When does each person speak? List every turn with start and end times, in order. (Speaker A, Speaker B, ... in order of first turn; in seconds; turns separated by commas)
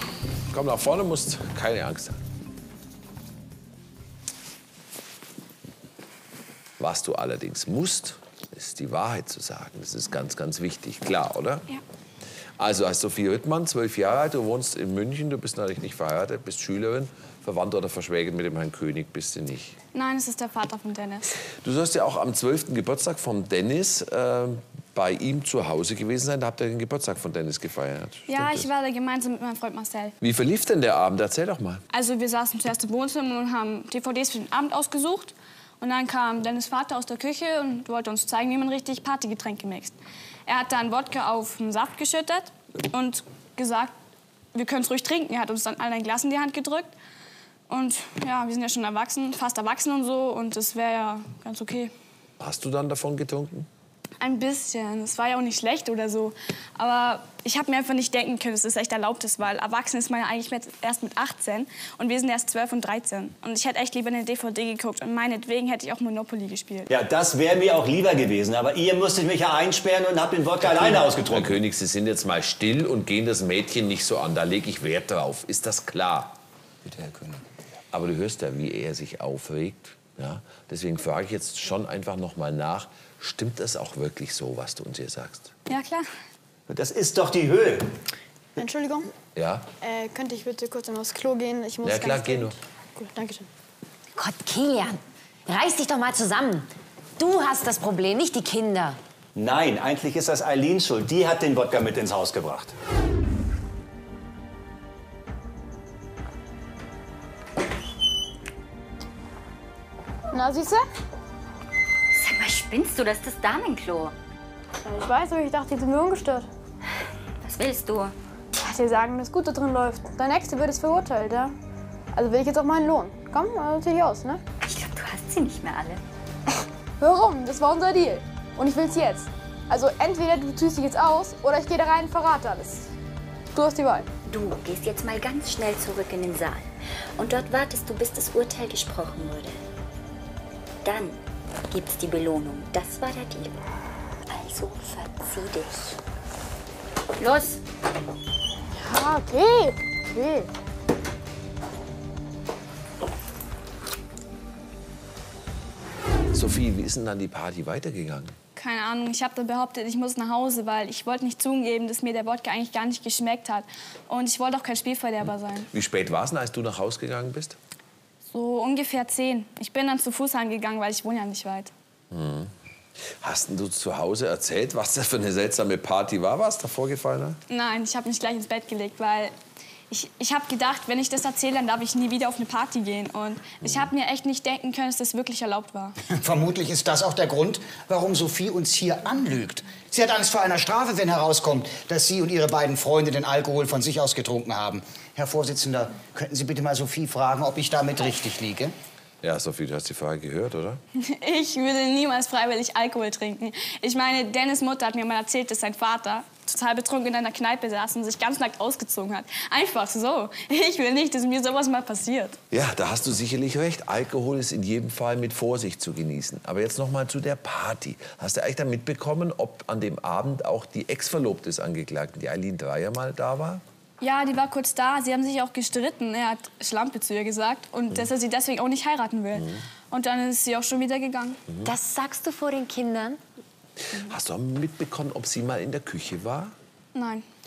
Speaker A: 0.5-2.2, Speaker A: 6.8-11.7, Speaker A: 12.6-19.8, Speaker B: 19.9-21.2, Speaker A: 21.6-28.7, Speaker B: 28.3-30.1, Speaker A: 30.2-31.8, Speaker B: 31.9-40.0, Speaker B: 40.5-43.9, Speaker B: 44.5-46.9, Speaker B: 47.7-51.9, Speaker A: 52.4-53.7, Speaker B: 54.2-66.9, Speaker C: 66.9-71.6, Speaker A: 70.6-76.3, Speaker D: 76.8-77.4, Speaker A: 77.9-85.5, Speaker B: 85.7-86.1, Speaker C: 86.7-87.9, Speaker E: 88.5-89.1, Speaker A: 89.3-89.7, Speaker E: 89.8-93.5, Speaker A: 91.8-92.5, Speaker F: 94.1-99.0, Speaker C: 99.3-102.7, Speaker E: 110.3-110.8, Speaker G: 112.1-114.1, Speaker E: 114.8-116.5, Speaker G: 117.4-118.1, Speaker E: 118.6-121.5, Speaker E: 122.1-124.4, Speaker G: 124.6-126.0, Speaker E: 127.0-132.9, Speaker E: 133.5-134.1, Speaker G: 134.2-139.6, Speaker G: 140.8-141.2, Speaker G: 141.7-143.6, Speaker G: 144.3-146.0, Speaker G: 147.2-147.6, Speaker E: 148.8-150.5, Speaker A: 156.3-158.3, Speaker B: 158.6-165.7, Speaker A: 165.7-167.6, Speaker B: 168.3-171.7, Speaker A: 172.1-172.5, Speaker A: 173.2-177.4, Speaker B: 177.5-179.3, Speaker B: 179.9-185.9, Speaker D: 186.1-198.7, Speaker A: 199.2-200.8, Speaker B: 201.0-212.4, Speaker A: 212.5-223.6, Speaker B: 224.0-231.4, Speaker F: 231.6-233.2, Speaker A: 233.9-236.5, Speaker B: 236.9-237.2